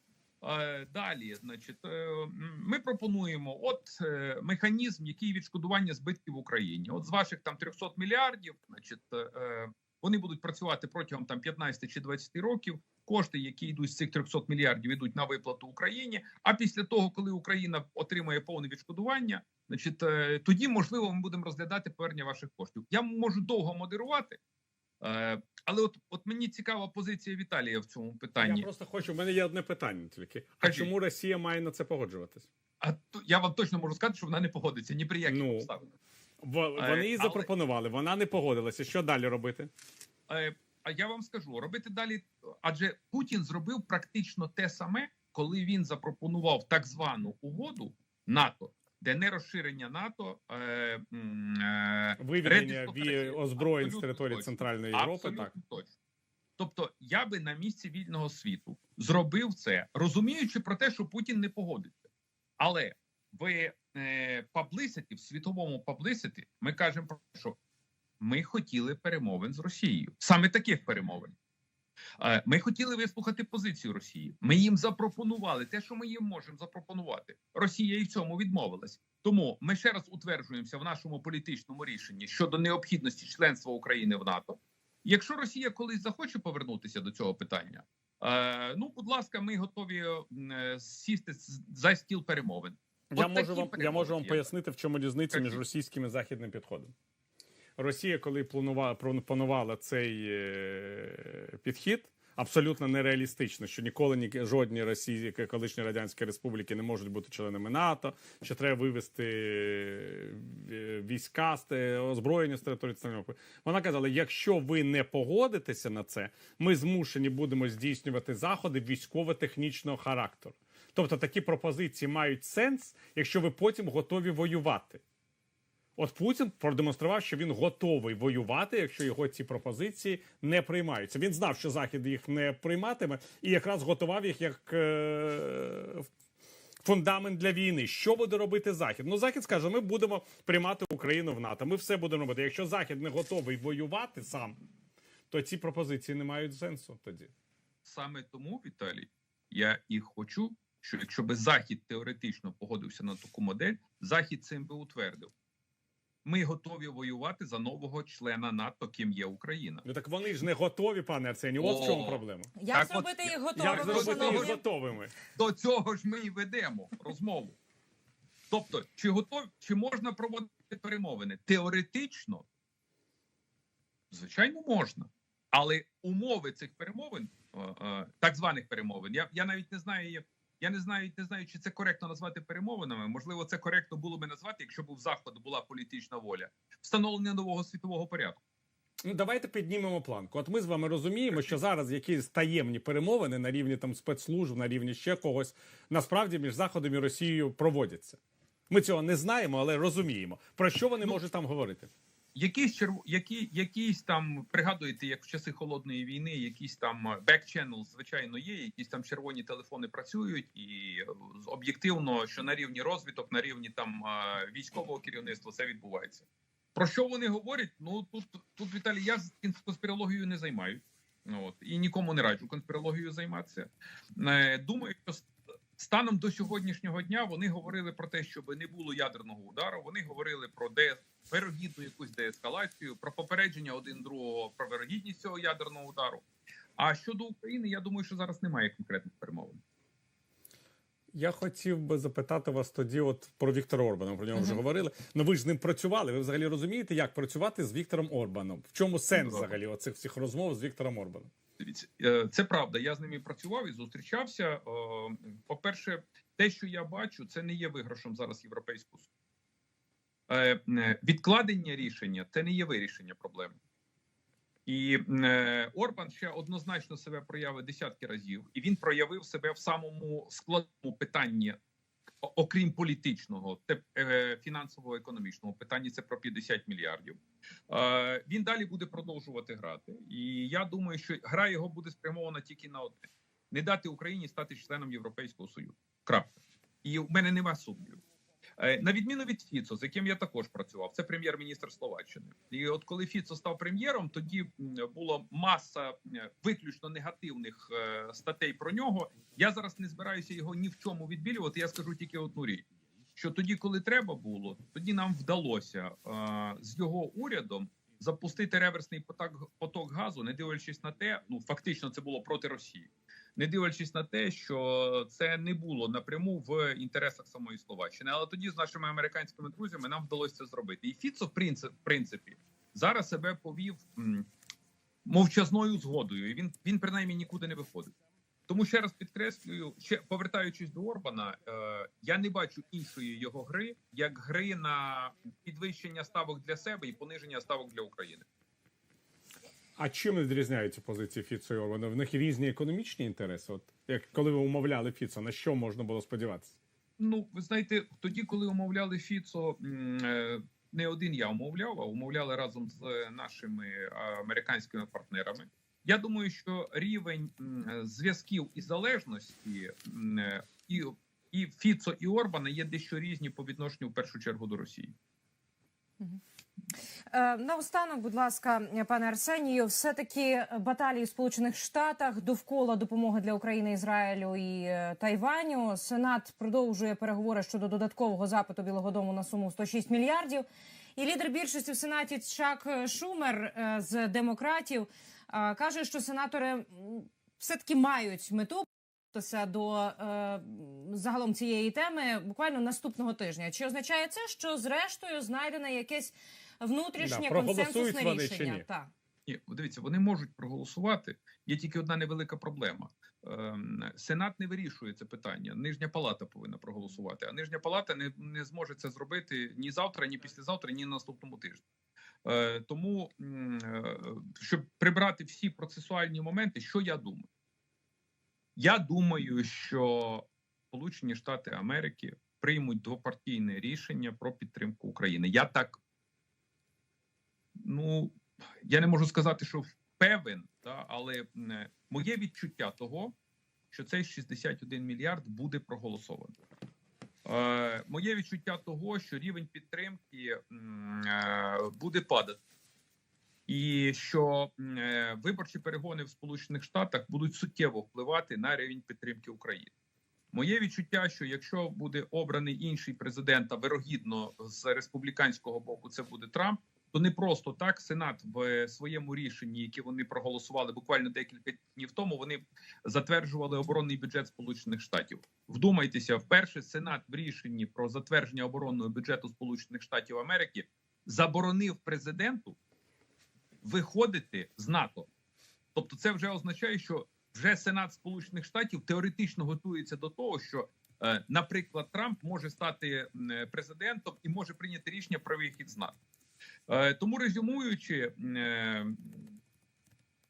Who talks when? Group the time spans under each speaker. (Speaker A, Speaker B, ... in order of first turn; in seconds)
Speaker A: 0.4-24.4, 25.0-28.7, 30.6-30.9, 32.8-35.9, 36.8-37.5, 40.3-55.9, 56.6-62.1, 62.6-67.6, 68.2-71.3, 72.2-94.5, 95.3-95.6, 147.8-155.3, 156.2-159.8, 161.6-164.6, 165.3-167.6, 168.5-172.4, 174.1-188.4, 202.3-236.2, 236.8-239.6, 249.2-249.5, 251.6-259.1, 260.3-263.6, 264.6-271.6, 272.2-288.0, 288.6-324.3, 325.0-327.9, 328.5-338.2, 347.0-364.9, 399.3-411.6, 412.2-417.3, 418.6-425.8, 427.6-433.1, 433.7-436.3, 437.2-442.4, 443.5-449.7, 450.3-472.6, 473.6-475.1, 475.7-486.0, 486.7-489.3
Speaker B: 28.4-32.5, 35.2-35.7, 36.4-39.7, 52.2-55.5, 93.1-96.9, 97.8-125.0, 126.0-136.1, 136.8-144.6, 145.3-147.3, 159.8-162.5, 163.6-165.1, 189.0-198.2, 198.7-201.9, 241.1-251.3, 339.8-346.6, 397.0-398.6
Speaker C: 162.6-164.6, 367.1-398.9